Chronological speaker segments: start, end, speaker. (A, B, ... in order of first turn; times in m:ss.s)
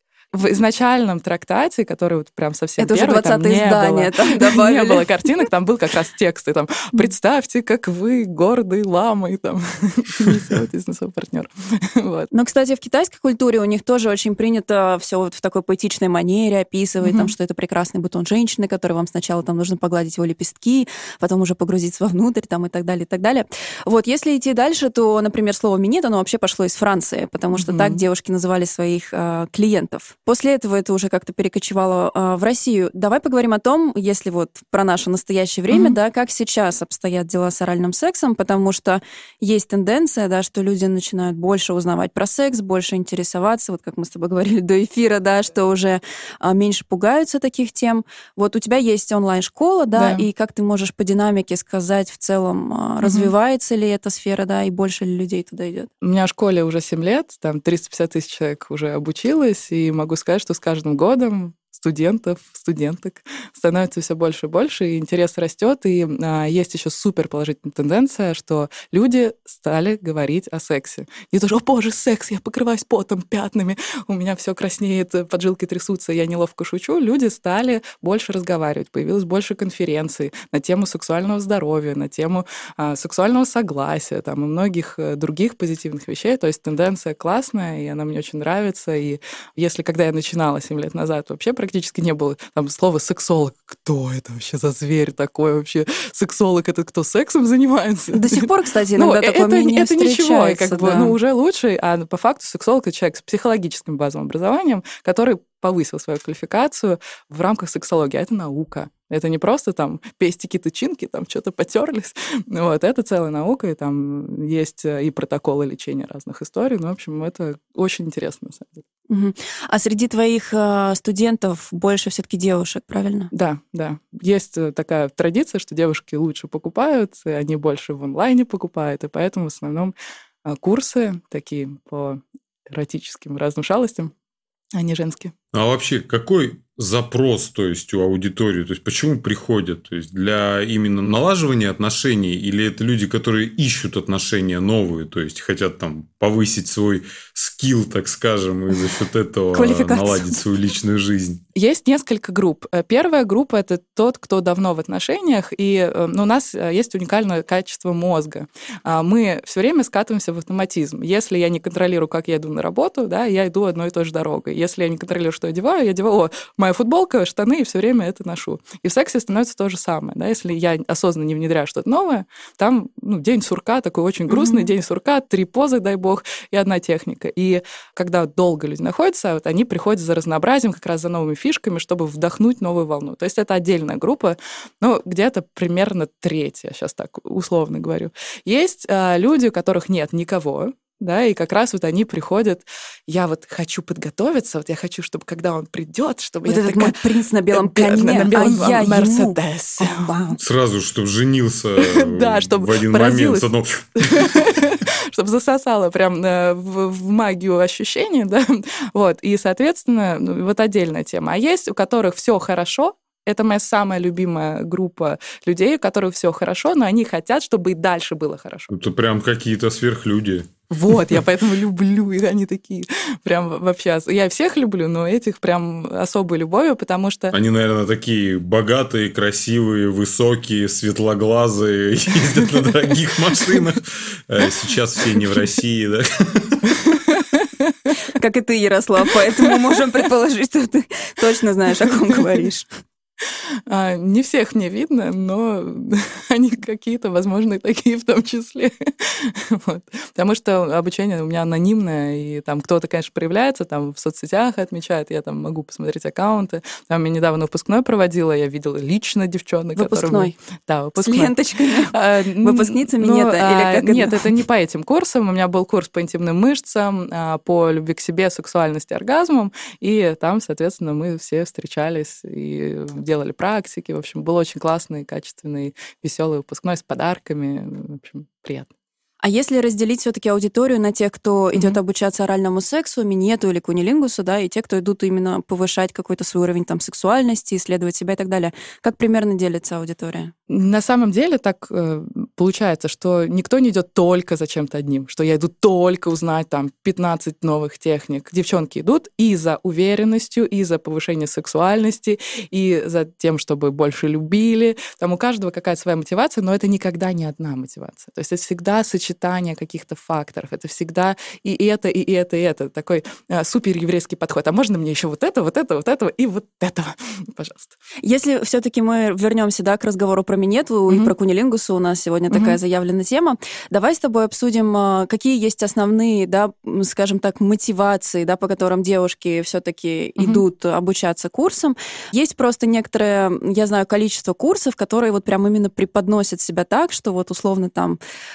0:00.3-0:12.3 A
0:02.8-0:05.4 B
0:12.3-0:55.9 B
0:17.0-0:17.3 A
0:27.5-0:28.0 A
0:35.7-0:36.0 A
0:49.9-0:50.2 A
0:53.0-0:53.3 A
0:56.0-1:58.8 A
1:38.1-1:41.1 B
1:59.1-2:03.3 B
2:03.3-2:09.9 A
2:10.4-2:14.1 A
2:14.7-2:15.3 A
2:15.5-2:31.4 C
2:29.5-2:30.4 B
2:31.5-3:17.0 A
2:54.3-2:54.7 B
3:16.4-3:20.4 B
3:17.5-3:20.3 A
3:20.4-3:24.5 C
3:21.8-3:23.4 A
3:24.0-3:38.7 A
3:38.7-3:41.2 C
3:40.7-3:47.3 A
3:47.3-3:56.8 C
3:56.8-3:57.9 A
3:58.1-4:02.7 B
4:03.2-4:38.7 A
4:19.8-4:20.3 B
4:21.0-4:24.2 B
4:39.2-4:50.3 B
4:50.5-5:17.7 A
5:18.0-5:38.0 B
5:22.3-5:22.6 A
5:30.2-5:30.4 A